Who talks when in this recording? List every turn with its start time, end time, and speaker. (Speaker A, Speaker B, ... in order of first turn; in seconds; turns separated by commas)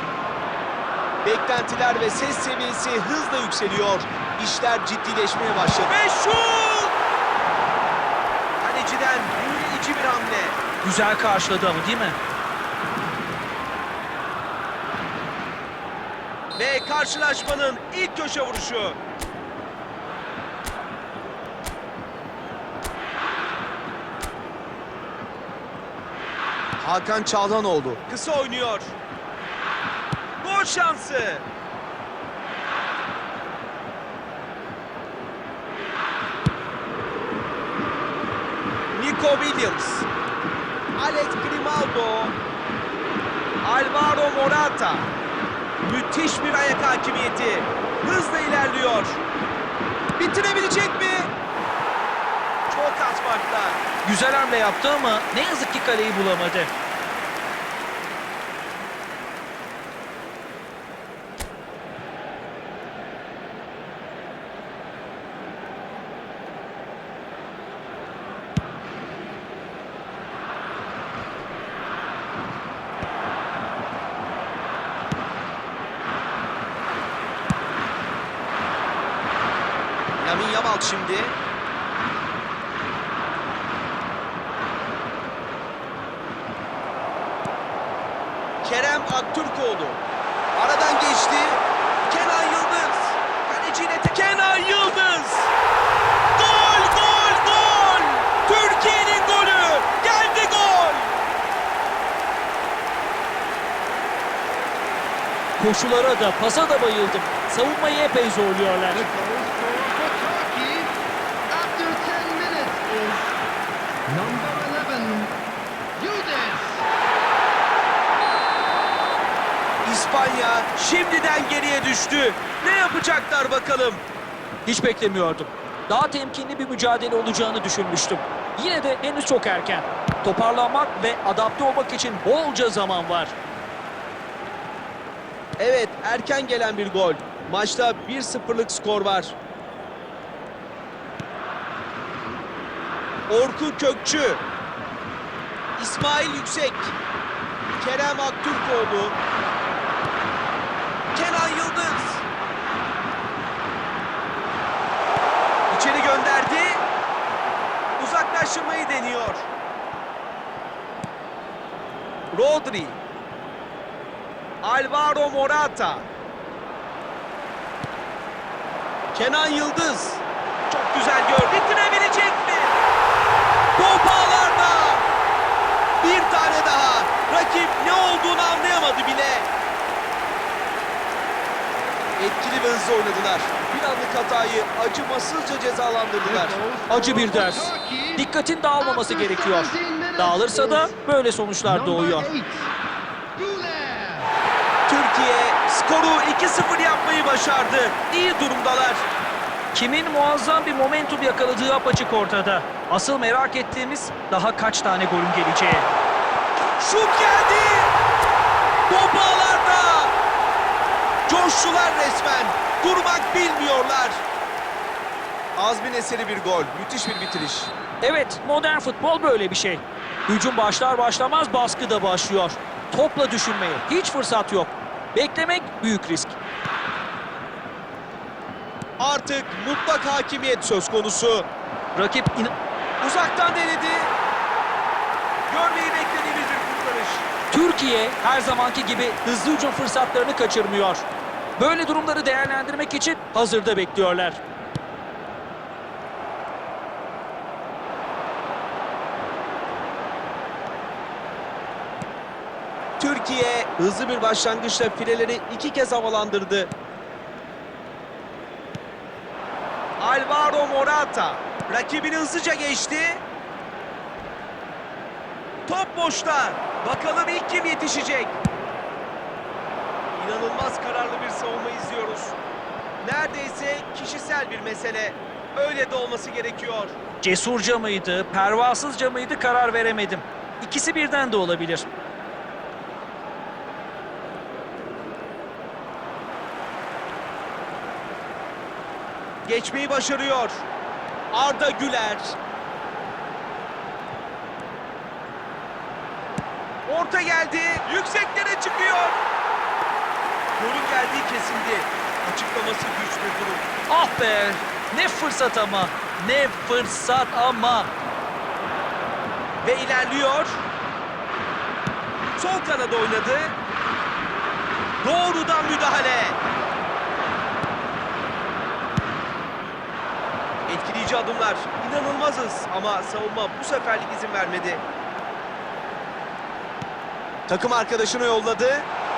Speaker A: 1.2-6.9, Speaker A: 8.6-10.6, Speaker B: 10.8-12.2, Speaker A: 16.6-19.0, Speaker A: 26.8-28.9, Speaker A: 30.4-31.4, Speaker A: 38.9-40.1, Speaker A: 41.0-42.4, Speaker A: 43.6-45.1, Speaker A: 45.8-49.2, Speaker A: 50.2-51.3, Speaker A: 52.7-53.8, Speaker B: 54.0-56.7, Speaker A: 80.2-81.4, Speaker A: 88.6-90.0, Speaker A: 90.5-95.5, Speaker A: 96.4-101.1, Speaker B: 105.6-109.0, Speaker C: 108.9-111.0, Speaker C: 111.5-113.3, Speaker C: 114.1-115.4, Speaker C: 116.0-116.9, Speaker A: 119.8-124.0, Speaker B: 124.7-133.3, Speaker A: 135.6-139.3, Speaker A: 143.3-144.4, Speaker A: 145.8-146.9, Speaker A: 147.8-149.2, Speaker A: 151.1-152.2, Speaker A: 155.7-156.8, Speaker A: 158.0-159.5, Speaker A: 162.3-163.0, Speaker A: 164.6-166.1, Speaker A: 169.1-172.8, Speaker A: 173.8-175.0, Speaker A: 176.0-179.5, Speaker A: 182.2-186.6, Speaker C: 186.2-190.9, Speaker B: 186.9-192.3, Speaker C: 191.6-192.7, Speaker C: 193.3-194.3, Speaker A: 194.9-199.0, Speaker B: 199.7-205.9, Speaker A: 206.8-207.9, Speaker A: 208.9-210.1, Speaker A: 211.3-214.2, Speaker A: 215.6-217.7, Speaker B: 218.0-226.4, Speaker A: 229.0-231.5, Speaker B: 231.9-232.5, Speaker A: 233.0-234.1, Speaker A: 235.5-237.3, Speaker B: 237.5-241.0, Speaker B: 241.6-244.4, Speaker A: 253.0-256.7, Speaker A: 260.0-263.2, Speaker A: 265.7-268.4, Speaker A: 270.1-272.4, Speaker A: 273.0-276.9, Speaker B: 277.2-281.9, Speaker A: 289.4-290.6, Speaker A: 291.3-292.4, Speaker A: 296.9-299.2, Speaker A: 300.6-303.7, Speaker B: 303.9-307.9, Speaker A: 309.6-310.6, Speaker A: 312.4-313.6, Speaker A: 315.0-316.4, Speaker A: 320.7-324.8, Speaker A: 327.5-328.9